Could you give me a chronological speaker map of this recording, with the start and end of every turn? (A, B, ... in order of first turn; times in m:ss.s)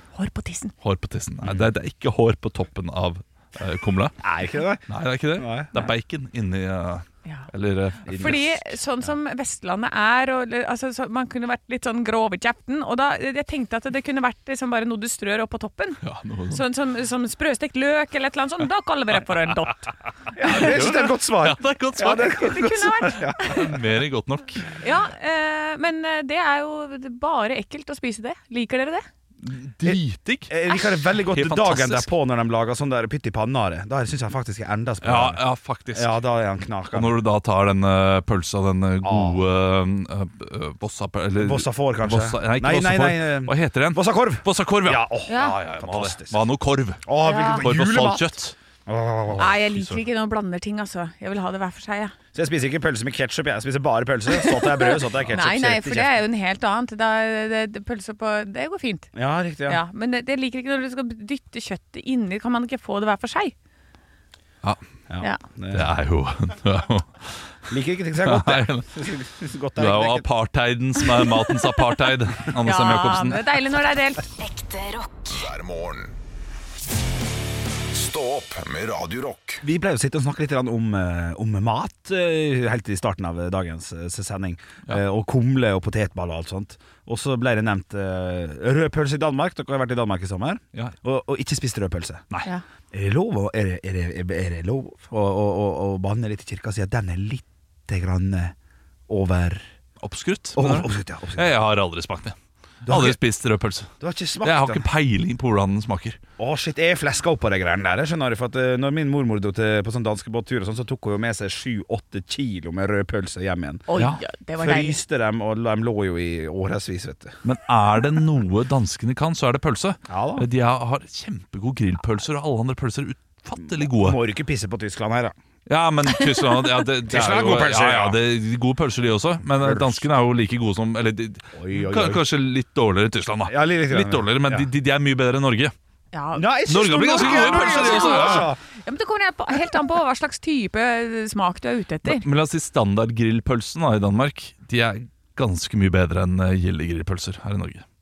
0:00.2-0:00.7 A
0:00.8-0:04.2 B
0:01.4-0:01.7 C
0:04.2-0:04.8 C
0:04.9-0:08.7 B
0:05.4-0:05.9 C
0:08.1-0:08.4 C
0:08.1-0:19.9 A
0:16.0-0:16.6 B
0:20.3-0:23.8 C
0:20.4-0:22.7 B
0:20.5-0:20.7 A
0:22.1-0:23.7 A
0:23.4-0:24.8 B
0:24.8-0:29.0 A
0:29.4-0:32.1 B
0:29.8-0:35.4 C
0:35.0-0:36.2 B
0:35.9-0:37.2 C
0:36.9-0:48.6 B
0:39.0-0:39.4 C
0:41.4-0:46.4 C
0:45.3-0:45.6 A
0:47.1-0:48.3 C
0:47.2-0:47.6 A
0:48.9-0:49.5 C
0:49.4-0:52.2 A
0:49.7-0:50.0 B
0:52.3-0:56.2 C
0:54.3-0:59.1 A
0:59.1-0:59.8 C
0:59.7-1:03.6 A
1:05.1-1:05.9 C
1:05.7-1:07.3 B
1:07.7-1:10.3 C
1:08.2-1:08.9 B
1:09.8-1:13.6 B
1:12.6-1:14.3 A
1:15.1-1:16.2 D
1:17.9-1:19.6 D
1:19.6-1:32.2 C
1:32.9-1:38.6 C
1:39.1-1:39.7 C
1:40.0-1:43.9 B
1:40.6-1:41.5 C
1:42.8-1:43.2 C
1:44.0-1:44.8 C
1:44.4-1:46.2 B
1:46.4-1:53.8 C
1:53.9-1:55.0 A
1:54.0-1:54.2 B
1:54.6-1:57.4 C
1:57.4-2:04.2 B
2:00.1-2:00.5 C
2:03.6-2:05.4 C
2:05.7-2:15.7 B
2:06.1-2:06.8 A
2:07.1-2:08.2 C
2:09.6-2:10.1 C
2:11.5-2:12.2 C
2:13.5-2:14.7 C
2:16.1-2:22.3 A
2:16.3-2:18.6 C
2:16.7-2:18.5 B
2:22.0-2:27.8 B